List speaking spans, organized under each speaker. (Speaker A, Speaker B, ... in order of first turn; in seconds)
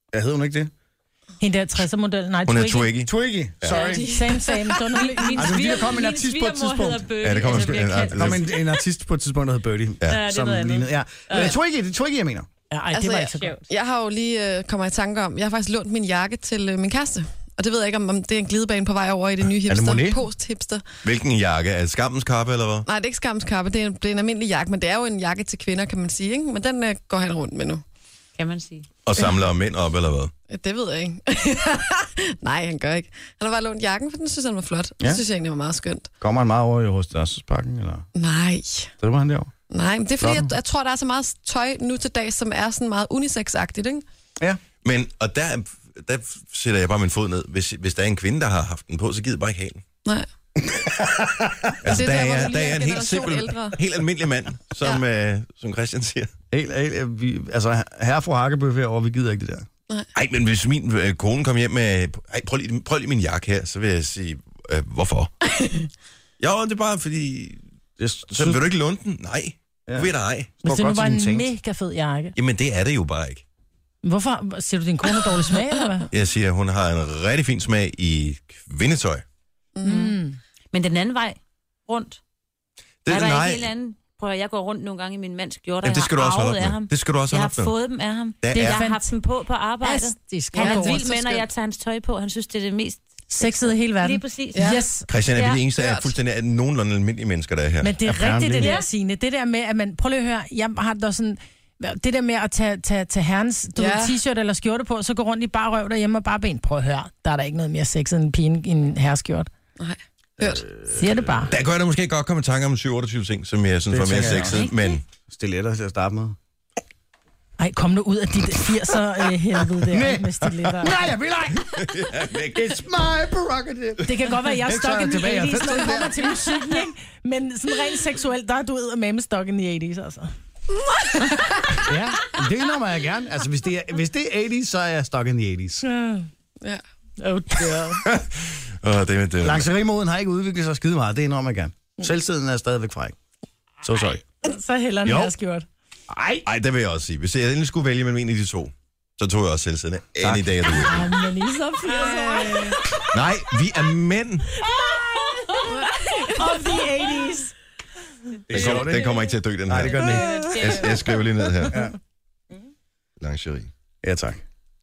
Speaker A: 0.1-0.7, 3.0-4.0, 5.4-12.5, 19.7-20.2, 36.2-38.1, 39.0-39.5, 40.2-40.5, 50.6-52.0, 56.5-59.7, 68.0-68.7, 69.9-71.5, 98.0-98.8, 110.4-111.5, 113.9-114.6, 115.3-116.4, 119.8-126.3, 131.8-135.8, 139.4-143.2, 143.8-144.2, 145.1-145.3, 146.1-146.5, 150.2-150.9, 158.5-159.1, 159.7-160.5, 161.6-161.9, 164.0-164.4
Speaker B: 1.4-2.9, 3.9-5.7, 12.7-13.6, 70.7-72.3, 74.0-76.1, 79.8-80.4, 88.5-89.1, 89.8-91.4, 93.3-95.1, 97.8-109.5, 110.9-111.5, 117.6-121.0, 124.0-130.3, 135.8-136.3, 137.2-138.0, 144.4-145.7, 150.8-152.9, 154.6-157.5
Speaker C: 2.5-3.8, 7.2-8.5, 21.0-22.9, 29.1-30.3, 44.8-49.8, 51.8-56.3, 60.1-65.3, 66.4-67.6, 68.3-70.5, 72.4-73.4, 76.1-79.2, 83.0-83.7, 85.8-87.7, 88.4-88.8, 95.1-98.0, 111.5-115.0, 121.7-122.8, 138.0-139.7, 146.4-151.0, 153.1-154.5, 158.5-161.9, 163.2-163.7
Speaker D: 3.8-4.0, 4.9-8.7, 10.1-11.6, 13.3-13.6, 28.4-28.9, 79.9-80.2, 80.7-82.2, 83.1-95.7, 98.6-98.9, 114.3-115.0, 151.9-153.0, 158.6-159.1, 159.9-161.2
Speaker E: 3.8-4.7, 12.9-20.8, 22.9-27.8, 30.5-36.1, 38.1-38.9, 39.7-44.0, 51.8-53.8, 65.6-65.9, 79.8-80.1, 90.6-91.3, 94.5-94.8, 95.8-96.1, 103.8-104.2, 109.8-110.7, 130.7-131.9